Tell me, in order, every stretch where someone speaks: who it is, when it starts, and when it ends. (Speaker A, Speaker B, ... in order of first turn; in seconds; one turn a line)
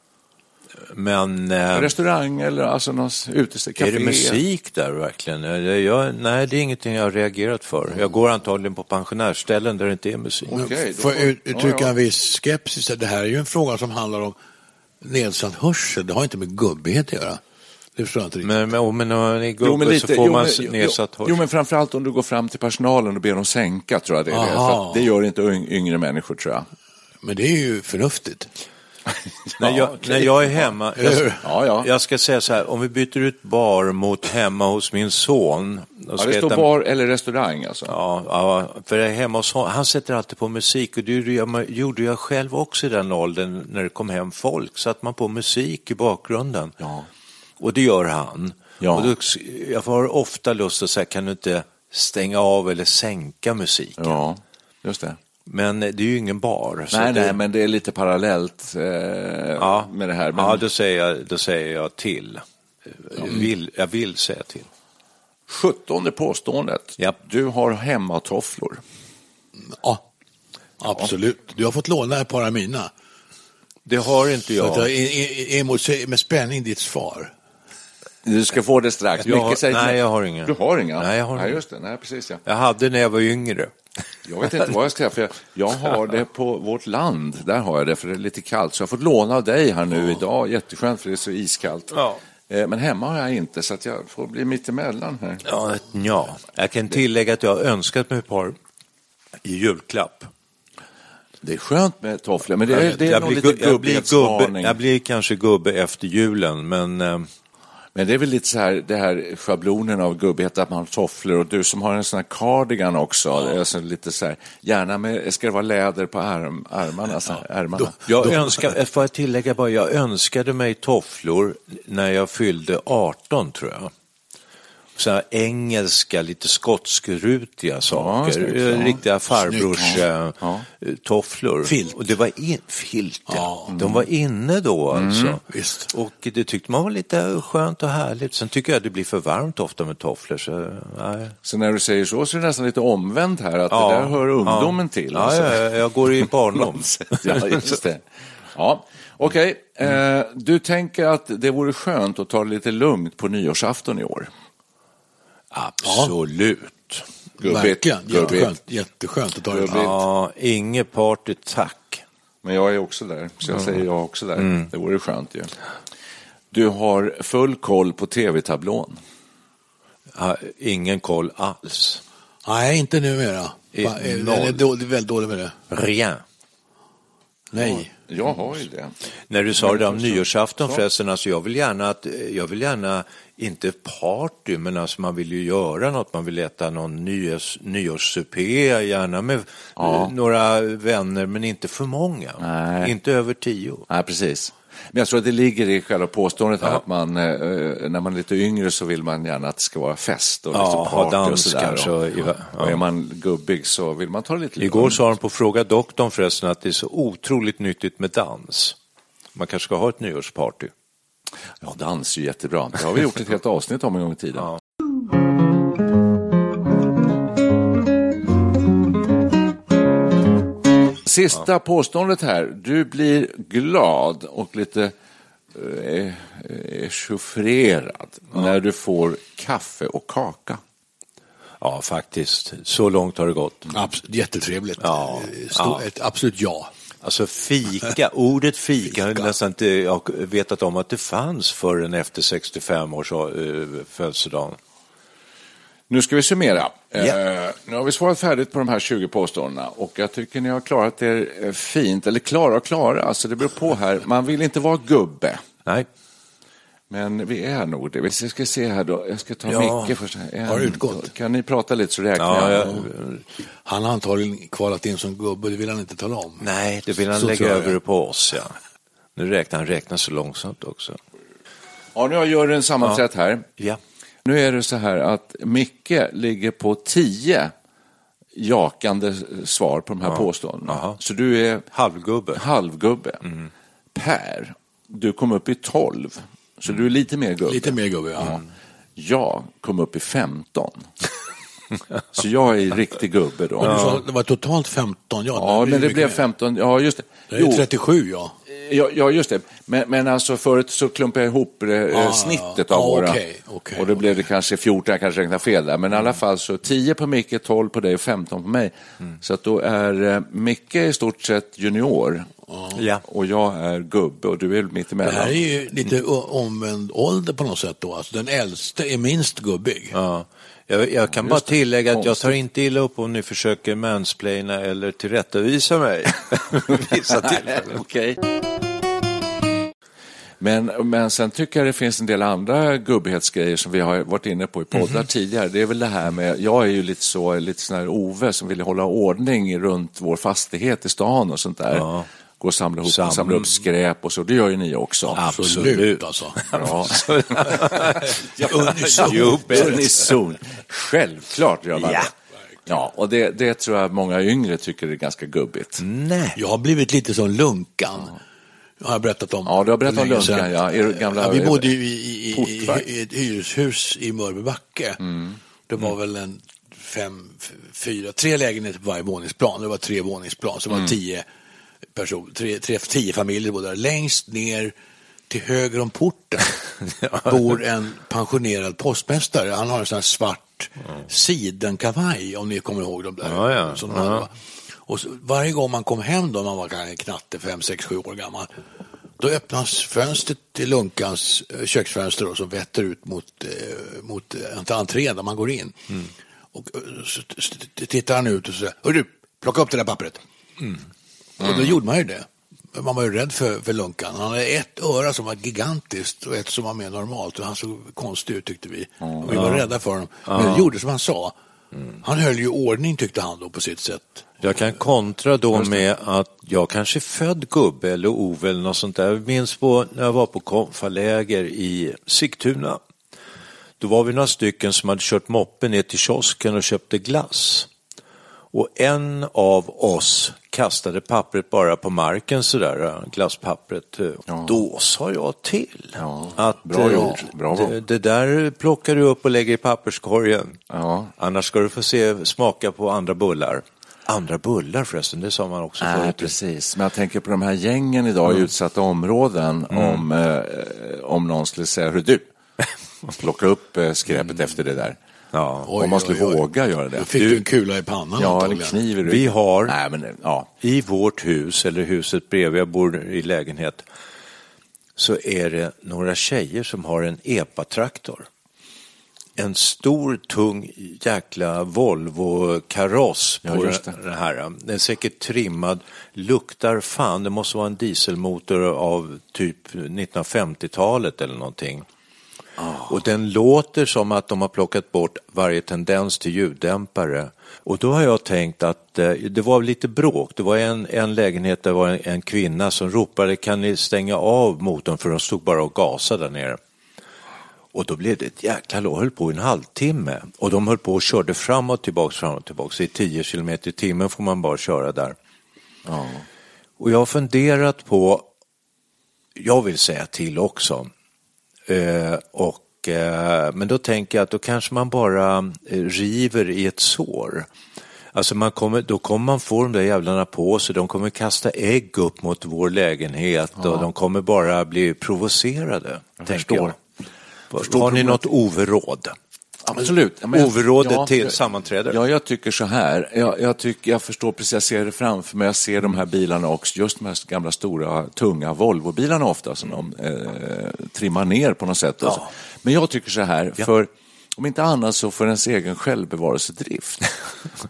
Speaker A: 0.9-1.9
Speaker B: 1.7-4.4
Speaker A: 3.8-10.6
Speaker B: 10.5-11.9
Speaker C: 10.5-14.4
Speaker C: 15.0-17.4
Speaker C: 17.9-18.6
Speaker A: 18.4-21.4
Speaker B: 19.6-26.6
Speaker C: 24.3-25.1
Speaker C: 27.2-28.5
Speaker B: 29.4-30.2
Speaker A: 29.6-36.7
Speaker C: 30.9-31.4
Speaker B: 31.4-31.9
Speaker B: 36.1-38.0
Speaker A: 37.9-46.8
Speaker B: 46.8-47.1
Speaker A: 47.6-54.1
Speaker B: 48.8-49.1
Speaker B: 54.0-55.2
Speaker A: 55.5-57.4
Speaker B: 56.9-60.6
Speaker A: 59.6-64.7
Speaker B: 65.5-68.8
Speaker C: 69.7-70.0
Speaker C: 70.8-72.9
Speaker A: 73.8-74.9
Speaker C: 74.5-77.3
Speaker B: 78.2-82.4
Speaker A: 79.2-81.6
Speaker A: 82.4-83.7
Speaker B: 84.2-95.5
Speaker A: 91.9-92.2
Speaker A: 95.4-98.5
Speaker A: 99.4-100.3
Speaker B: 101.4-104.8
Speaker A: 102.7-107.3
Speaker B: 107.9-118.1
Speaker A: 118.0-123.9
Speaker A: 125.0-141.3
Speaker B: 127.9-129.0
Speaker C: 129.4-129.9
Speaker B: 129.8-130.6
Speaker C: 131.6-132.0
Speaker C: 133.3-133.7
Speaker B: 133.7-134.0
Speaker B: 134.9-135.4
Speaker C: 135.5-135.9
Speaker B: 141.4-145.7
Speaker A: 143.7-147.7
Speaker B: 146.2-148.0
Speaker B: 148.5-154.3
Speaker A: 155.5-157.0
Speaker C: 155.8-156.1
Speaker C: 157.4-159.9
Speaker B: 157.4-158.5
Speaker B: 159.5-160.0
Speaker A: 159.7-162.0
Speaker B: 162.4-165.5
Speaker B: 166.5-169.0
Speaker A: 170.1-172.0
Speaker C: 172.4-175.5
Speaker A: 173.7-174.6
Speaker A: 175.7-176.2
Speaker C: 177.5-177.9
Speaker B: 177.6-178.9
Speaker A: 179.3-193.8
Speaker B: 179.6-180.8
Speaker B: 189.8-190.1
Speaker B: 192.4-192.9
Speaker B: 193.9-201.9
Speaker A: 200.5-202.8
Speaker B: 202.5-205.1
Speaker A: 204.6-208.8
Speaker A: 209.3-210.7
Speaker B: 211.6-214.5
Speaker B: 221.0-224.9
Speaker B: 225.5-230.6
Speaker A: 231.6-233.7
Speaker C: 233.7-236.7
Speaker A: 234.8-235.8
Speaker A: 237.0-244.6
Speaker C: 239.0-239.3
Speaker B: 245.9-255.4
Speaker B: 256.9-262.9
Speaker A: 259.5-259.9
Speaker C: 260.4-261.1
Speaker A: 262.2-263.2
Speaker C: 263.6-266.4
Speaker A: 266.4-268.5
Speaker C: 267.1-267.8
Speaker A: 269.1-271.0
Speaker B: 271.9-273.5
Speaker B: 274.2-277.5
Speaker B: 278.3-281.7
Speaker A: 280.1-281.0
Speaker A: 281.7-282.4
Speaker B: 282.3-283.3
Speaker B: 283.9-288.4
Speaker C: 287.4-288.4
Speaker B: 288.9-290.9
Speaker B: 292.1-293.9
Speaker C: 293.6-296.2
Speaker A: 293.7-294.0
Speaker B: 295.3-297.6
Speaker C: 297.3-298.3
Speaker B: 298.5-303.2
Speaker C: 301.9-304.1
Speaker B: 303.8-312.3
Speaker C: 312.5-312.8
Speaker A: 312.7-313.0
Speaker B: 313.0-315.4
Speaker C: 315.0-319.9
Speaker A: 319.9-327.8
Speaker B: 321.2-322.3
Speaker B: 327.2-328.2
Speaker B: 330.4-341.9
Speaker A: 341.7-342.1
Speaker B: 342.4-345.2
Speaker A: 342.9-343.5
Speaker A: 345.1-350.1
Speaker C: 345.2-346.4
Speaker B: 346.5-352.1
Speaker C: 348.2-349.8
Speaker A: 351.8-352.1
Speaker B: 352.7-355.8
Speaker A: 355.8-356.4
Speaker C: 356.4-358.2
Speaker C: 358.8-365.0
Speaker B: 359.4-362.9
Speaker B: 365.0-365.4
Speaker C: 365.7-371.2
Speaker C: 371.9-374.7
Speaker C: 375.3-376.5
Speaker A: 377.0-377.4
Speaker C: 377.2-384.3
Speaker A: 383.2-384.3
Speaker C: 384.9-388.5
Speaker C: 389.2-395.9
Speaker C: 396.5-400.2
Speaker C: 401.4-411.3
Speaker B: 409.0-409.3
Speaker A: 409.3-409.6
Speaker A: 410.2-410.7
Speaker C: 412.0-414.3
Speaker A: 414.4-422.8
Speaker A: 423.8-427.7
Speaker A: 428.5-440.6
Speaker B: 434.3-434.6
Speaker B: 436.0-437.8
Speaker B: 440.7-441.1
Speaker A: 441.2-446.3
Speaker B: 445.8-452.3
Speaker A: 449.7-450.0
Speaker B: 453.1-455.0
Speaker A: 455.3-455.7
Speaker C: 455.6-456.4
Speaker B: 455.7-457.4
Speaker C: 456.9-458.8
Speaker B: 458.2-460.5
Speaker A: 459.1-459.7
Speaker A: 460.6-463.8
Speaker A: 465.0-468.3
Speaker A: 469.4-481.8
Speaker B: 473.4-474.0
Speaker B: 482.6-482.9
Speaker A: 482.9-496.6
Speaker A: 497.7-505.1
Speaker B: 505.9-506.2
Speaker A: 506.8-508.3
Speaker A: 509.4-510.9
Speaker A: 511.7-517.5
Speaker A: 518.1-526.7
Speaker B: 523.6-523.9
Speaker B: 526.2-526.8
Speaker A: 527.5-529.1
Speaker B: 527.5-528.3
Speaker B: 529.6-547.0
Speaker A: 530.3-532.0